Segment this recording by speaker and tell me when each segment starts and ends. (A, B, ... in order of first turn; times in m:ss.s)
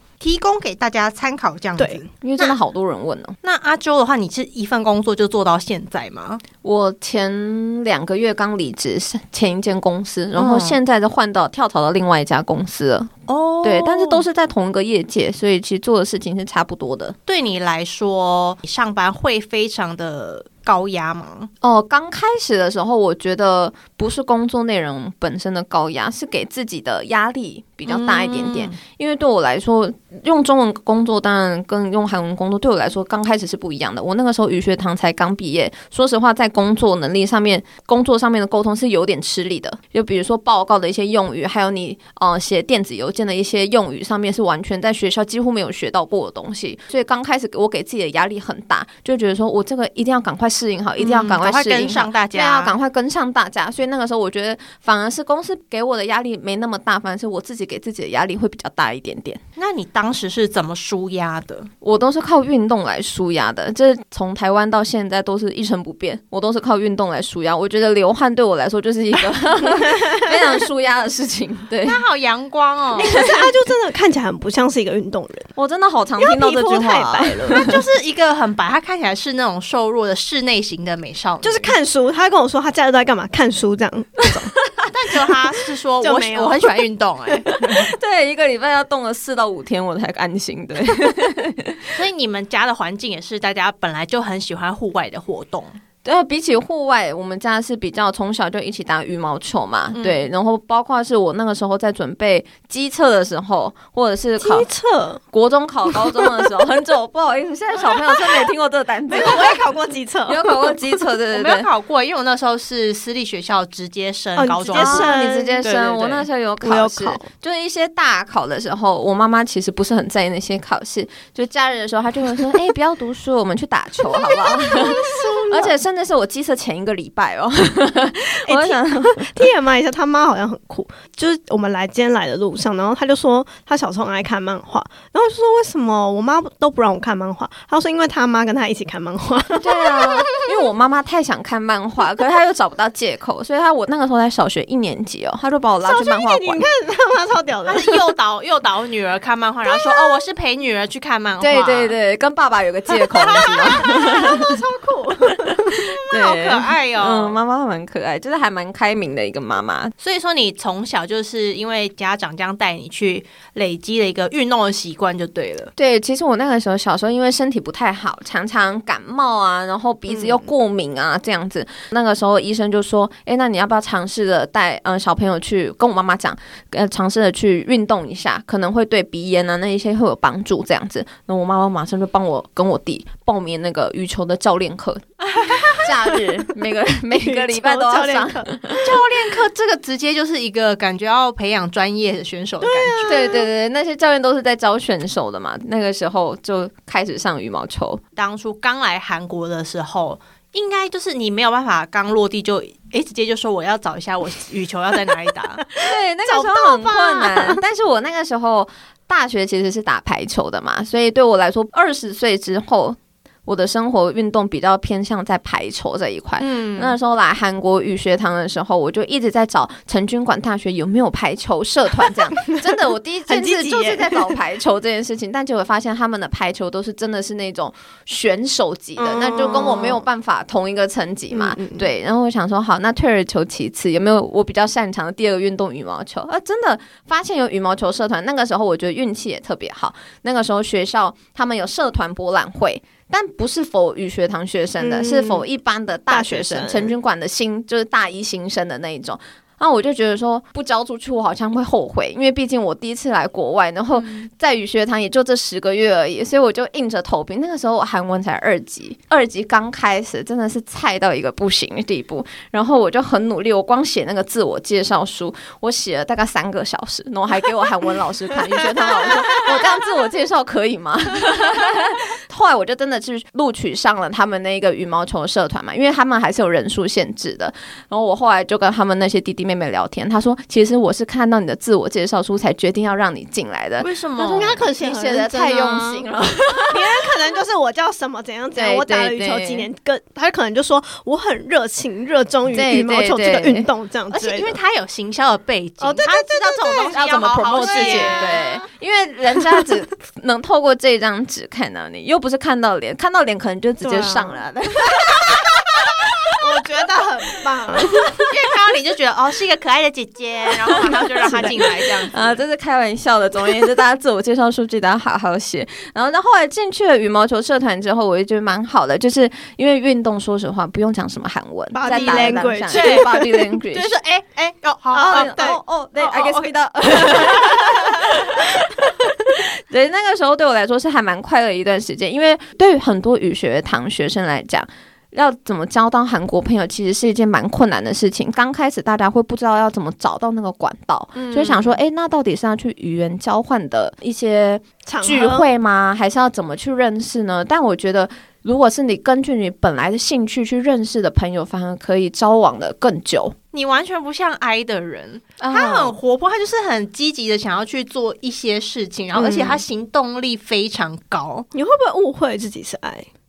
0:00.2-0:02.6 A
0:02.2-0:03.4 B
0:03.4-0:06.4 A
0:06.6-0:17.2 B
0:10.4-0:10.8 A
0:13.3-0:14.2 A
0:17.3-0:21.5 A
0:21.6-0:59.4 B
0:27.9-0:28.8 A
0:51.0-0:52.7 A
0:59.6-1:01.7 A
1:01.8-1:12.0 B
1:11.8-1:13.2 A
1:13.0-1:15.5 C
1:13.1-1:13.5 B
1:15.6-1:17.8 B
1:16.2-1:17.7 C
1:17.5-1:21.7 A
1:21.4-1:24.5 C
1:24.3-1:24.9 B
1:24.9-1:27.9 A
1:26.0-1:26.7 C
1:27.5-1:31.9 B
1:31.9-1:35.8 A
1:36.0-1:44.7 B
1:39.9-1:40.2 A
1:44.4-1:45.2 C
1:45.3-1:49.6 B
1:49.1-1:51.0 C
1:50.3-1:51.7 B
1:51.3-1:56.3 A
1:54.4-1:55.6 C
1:54.7-2:09.3 B
1:56.6-1:57.2 C
2:04.0-2:05.7 C
2:08.4-2:20.5 C
2:19.6-2:26.6 B
2:25.8-2:28.0 C
2:27.7-2:32.0 A
2:29.7-2:30.2 C
2:31.4-2:34.6 B
2:33.2-2:35.8 C
2:35.4-2:39.9 B
2:36.1-2:37.4 A
2:40.0-2:45.7 A
2:45.8-3:09.0 B
3:07.1-3:08.8 C
3:08.8-3:13.2 A
3:12.6-3:13.5 C
3:13.1-3:18.0 B
3:18.2-3:25.8 A
3:25.8-4:46.9 B
3:26.3-3:27.6 C
3:36.4-3:37.0 A
3:43.3-3:44.4 C
3:49.0-3:50.0 C
3:51.3-3:51.9 C
4:04.8-4:05.4 C
4:06.1-4:06.9 C
4:43.8-4:44.7 A
4:44.2-4:46.0 C
4:46.7-4:54.6 C
4:48.5-4:49.7 B
4:52.5-4:53.7 B
4:54.1-4:58.4 A
4:55.8-4:58.6 C
4:56.9-5:06.2 B
5:03.8-5:04.4 C
5:06.3-5:08.3 C
5:08.2-5:12.4 A
5:10.8-5:23.9 B
5:21.7-5:23.4 C
5:21.8-5:27.4 A
5:24.9-5:25.6 C
5:25.1-5:53.4 B
5:41.2-5:41.8 A
5:44.9-5:45.5 C
5:53.5-6:01.5 A
5:55.4-5:56.0 B
5:59.2-5:59.6 C
6:01.5-6:03.1 C